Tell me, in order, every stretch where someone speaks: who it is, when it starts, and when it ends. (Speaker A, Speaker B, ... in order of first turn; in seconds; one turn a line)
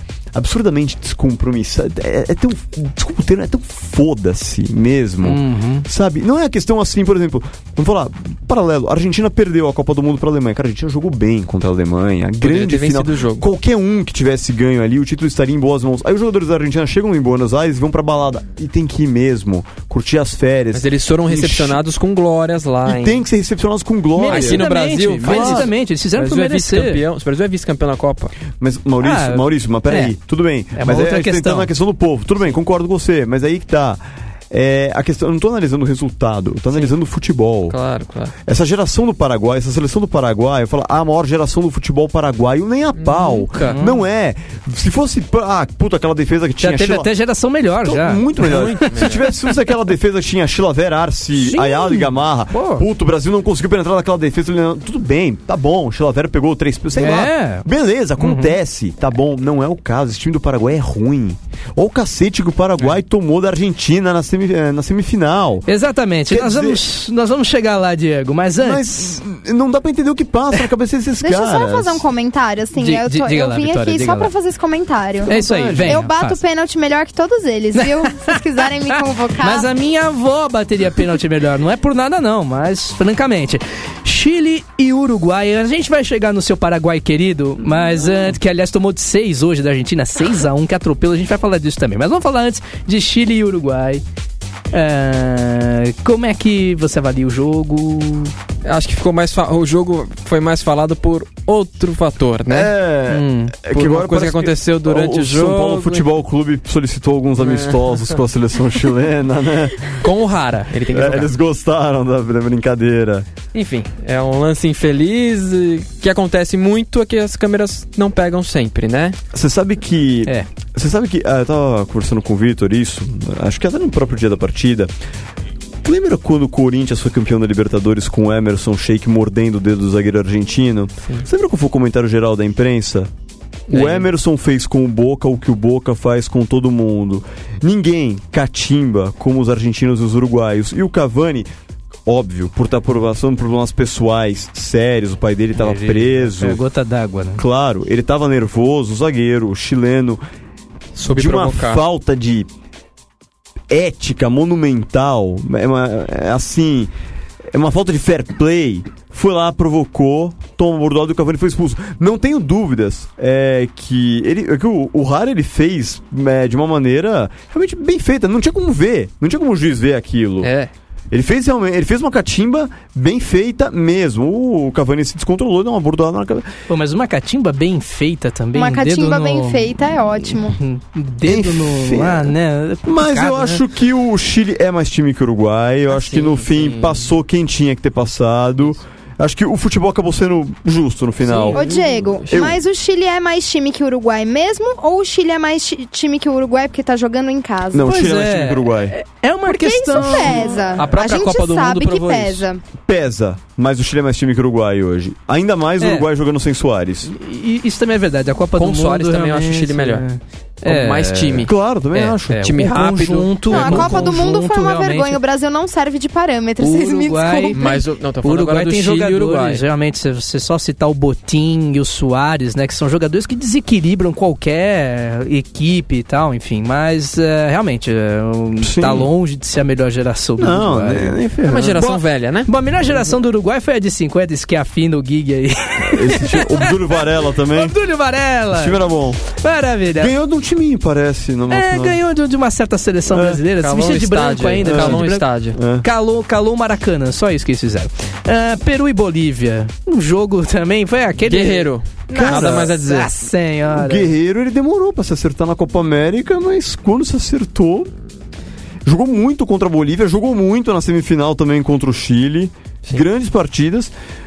Speaker A: 0.3-21.8
Speaker B: 5.2-5.9
Speaker C: 12.4-13.5
Speaker C: 20.7-23.2
Speaker A: 22.8-24.6
Speaker B: 24.2-27.0
Speaker C: 24.2-28.4
Speaker A: 25.2-25.7
Speaker A: 28.5-37.8
Speaker B: 29.0-30.1
Speaker B: 30.7-31.7
Speaker C: 37.7-38.3
Speaker A: 38.4-47.1
Speaker C: 43.0-43.8
Speaker B: 43.6-44.0
Speaker B: 46.6-48.9
Speaker A: 47.8-65.7
Speaker C: 48.4-49.3
Speaker B: 51.3-52.8
Speaker B: 56.9-57.6
Speaker B: 58.2-58.5
Speaker B: 65.7-68.9
Speaker A: 66.3-66.8
Speaker A: 68.6-72.0
Speaker D: 71.2-75.3
Speaker B: 72.8-74.3
Speaker A: 75.2-76.1
Speaker B: 75.2-76.4
Speaker D: 75.8-79.7
Speaker B: 77.7-94.0
Speaker B: 94.7-98.3
Speaker C: 98.6-102.7
Speaker A: 102.5-110.0
Speaker B: 103.1-103.5
Speaker C: 103.7-106.1
Speaker C: 107.4-108.1
Speaker C: 109.9-111.3
Speaker A: 110.9-113.3
Speaker C: 113.5-119.2
Speaker A: 119.3-124.9
Speaker A: 125.8-133.1
Speaker C: 133.7-134.1
Speaker A: 133.7-141.5
Speaker A: 142.1-146.6
Speaker B: 145.5-147.4
Speaker A: 147.4-150.2
Speaker C: 150.9-151.8
Speaker A: 151.1-152.5
Speaker A: 153.7-156.9
Speaker A: 157.5-170.5
Speaker C: 170.4-170.7
Speaker A: 171.1-176.5
Speaker B: 176.7-183.6
Speaker D: 178.5-180.6
Speaker A: 181.2-191.7
Speaker C: 185.9-187.0
Speaker C: 191.2-192.6
Speaker D: 191.5-197.9
Speaker A: 192.3-192.6
Speaker A: 197.7-198.9
Speaker B: 197.8-200.8
Speaker D: 199.4-202.6
Speaker C: 200.1-202.4
Speaker A: 202.8-207.1
Speaker B: 205.8-206.1
Speaker B: 207.1-215.2
Speaker C: 208.6-210.0
Speaker C: 210.6-211.5
Speaker A: 211.4-212.8
Speaker C: 212.4-214.1
Speaker D: 213.5-217.7
Speaker B: 216.6-231.2
Speaker C: 217.5-219.6
Speaker A: 228.6-229.1
Speaker A: 230.4-231.8
Speaker C: 231.4-232.5
Speaker B: 231.7-236.8
Speaker A: 235.8-237.8
Speaker B: 237.5-240.1
Speaker A: 238.5-239.2
Speaker A: 239.9-242.0
Speaker B: 241.5-245.2
Speaker A: 243.1-243.4
Speaker C: 243.6-245.6
Speaker A: 244.6-245.8
Speaker B: 245.8-254.1
Speaker C: 251.2-253.1
Speaker A: 252.1-252.7
Speaker A: 253.7-257.9
Speaker A: 258.8-263.9